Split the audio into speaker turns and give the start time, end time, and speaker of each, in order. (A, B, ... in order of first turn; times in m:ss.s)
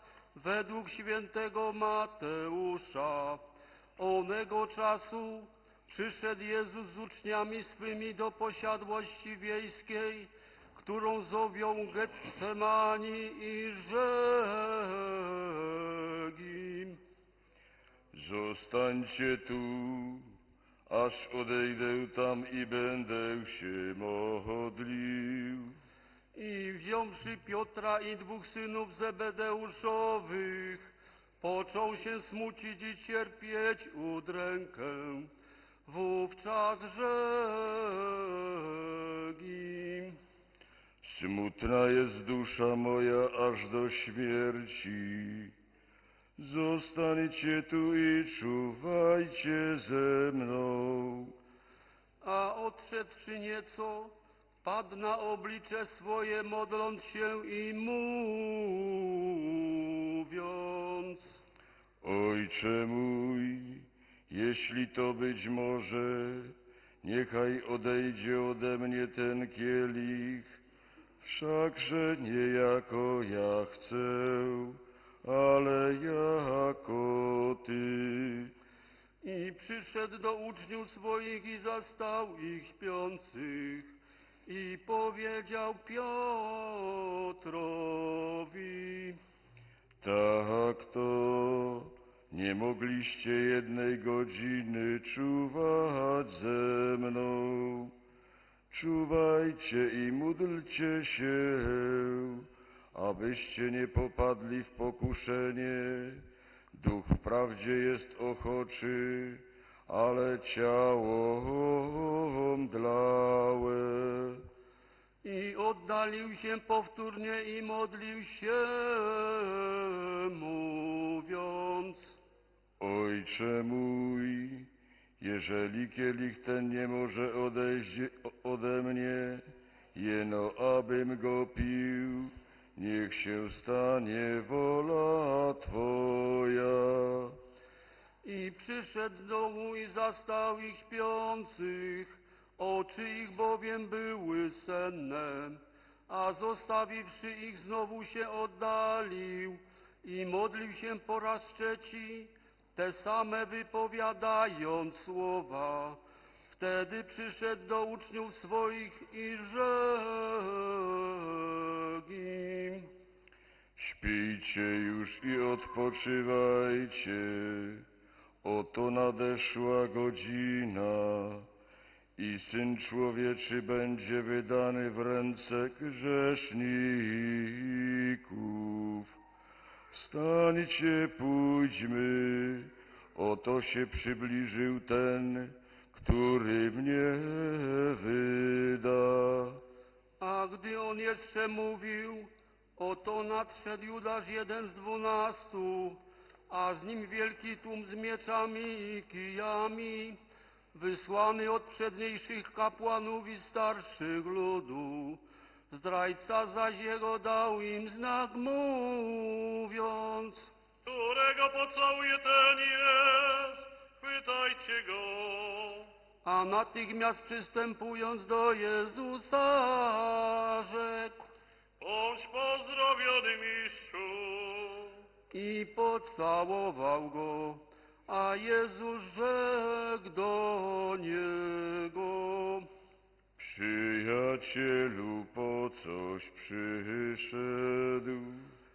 0:00.4-0:03.4 A
0:04.0-0:17.0 A
0:18.1-0:20.4 B
0:20.9-0:25.8 B
0:26.4-0:35.3 A
0:35.9-0:40.2 A
0:41.0-0:45.6 B
0:46.4-0:51.4 B
0:52.2-1:01.4 A
1:02.0-1:10.6 B
1:11.2-1:18.5 B
1:19.2-1:24.0 A
1:24.5-1:29.2 A
1:30.0-1:37.9 B
1:38.7-1:54.4 B
1:55.2-2:02.2 A
2:02.8-2:17.4 B
2:18.2-2:36.0 A
2:36.5-2:42.9 A
2:43.8-2:47.9 B
2:48.4-2:51.5 B
2:52.2-2:59.2 B
2:59.9-3:09.6 B
3:10.2-3:20.2 A
3:20.7-3:30.5 A
3:30.8-3:35.9 C
3:36.2-3:41.3 A
3:41.8-3:45.0 C
3:45.3-3:52.7 A
3:53.4-3:58.5 B